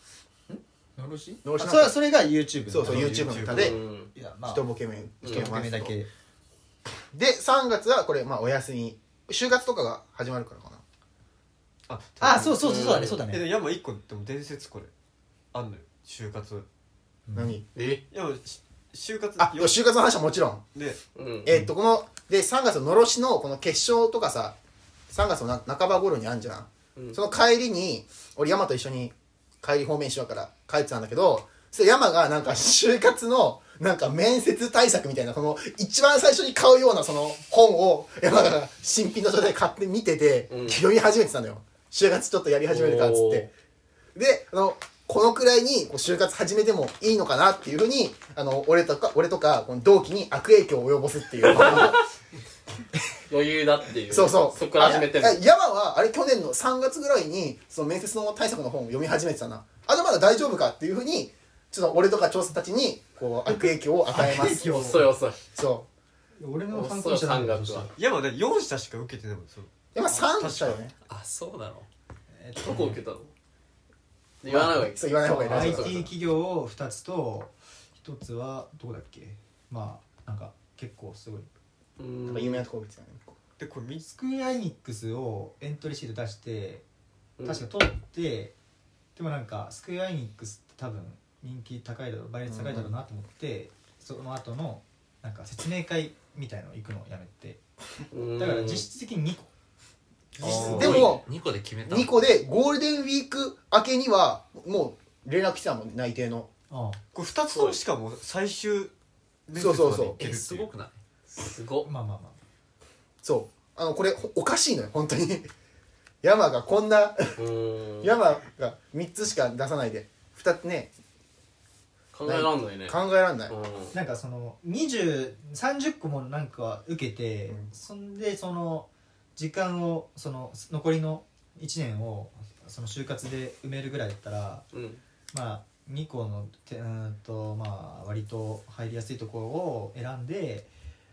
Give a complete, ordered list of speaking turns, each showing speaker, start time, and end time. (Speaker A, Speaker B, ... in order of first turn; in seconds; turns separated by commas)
Speaker A: 0.5-3.6, Speaker B: 1.4-2.0, Speaker B: 2.7-3.8, Speaker C: 2.8-3.8, Speaker D: 3.5-4.1, Speaker A: 4.2-4.7, Speaker B: 4.5-6.0, Speaker A: 5.2-6.1, Speaker B: 7.1-10.8, Speaker C: 11.9-14.9, Speaker A: 12.2-13.5, Speaker D: 12.6-13.2, Speaker C: 15.5-16.7, Speaker A: 17.3-17.6, Speaker B: 17.3-17.6, Speaker D: 17.8-18.0, Speaker C: 18.1-19.8, Speaker B: 19.4-20.6, Speaker C: 20.8-21.0, Speaker D: 21.2-21.5, Speaker B: 21.4-24.6, Speaker B: 25.1-43.5, Speaker D: 40.5-40.8, Speaker D: 42.7-43.5, Speaker B: 44.1-52.0, Speaker D: 53.3-55.4, Speaker B: 54.1-64.9, Speaker A: 63.5-65.1, Speaker D: 64.7-65.4, Speaker B: 65.5-65.9, Speaker A: 66.4-67.9, Speaker D: 66.7-67.9, Speaker C: 67.9-70.9, Speaker B: 69.9-70.9, Speaker E: 71.1-71.9, Speaker A: 72.3-73.0, Speaker D: 72.6-73.3, Speaker D: 74.4-76.0, Speaker B: 74.5-76.1, Speaker A: 75.5-81.5, Speaker D: 82.0-82.6, Speaker B: 82.3-83.4, Speaker C: 83.6-84.0, Speaker A: 84.0-86.8, Speaker D: 87.4-87.6, Speaker A: 87.4-88.5, Speaker A: 89.2-97.6, Speaker B: 92.5-92.9, Speaker D: 98.1-98.9, Speaker A: 98.4-99.5, Speaker A: 100.4-101.1, Speaker C: 100.4-101.2, Speaker B: 100.5-101.2, Speaker E: 100.8-102.1, Speaker B: 101.8-106.5, Speaker A: 106.7-107.0, Speaker C: 107.1-108.9, Speaker C: 109.5-110.7, Speaker B: 109.5-110.2, Speaker E: 110.1-111.0, Speaker D: 111.3-111.9, Speaker A: 111.8-112.4, Speaker B: 113.2-115.5, Speaker B: 116.2-117.4, Speaker D: 117.4-118.1, Speaker B: 118.0-120.9, Speaker D: 122.1-124.0, Speaker B: 122.2-123.5, Speaker A: 123.9-134.7, Speaker D: 134.7-135.0, Speaker A: 135.3-140.7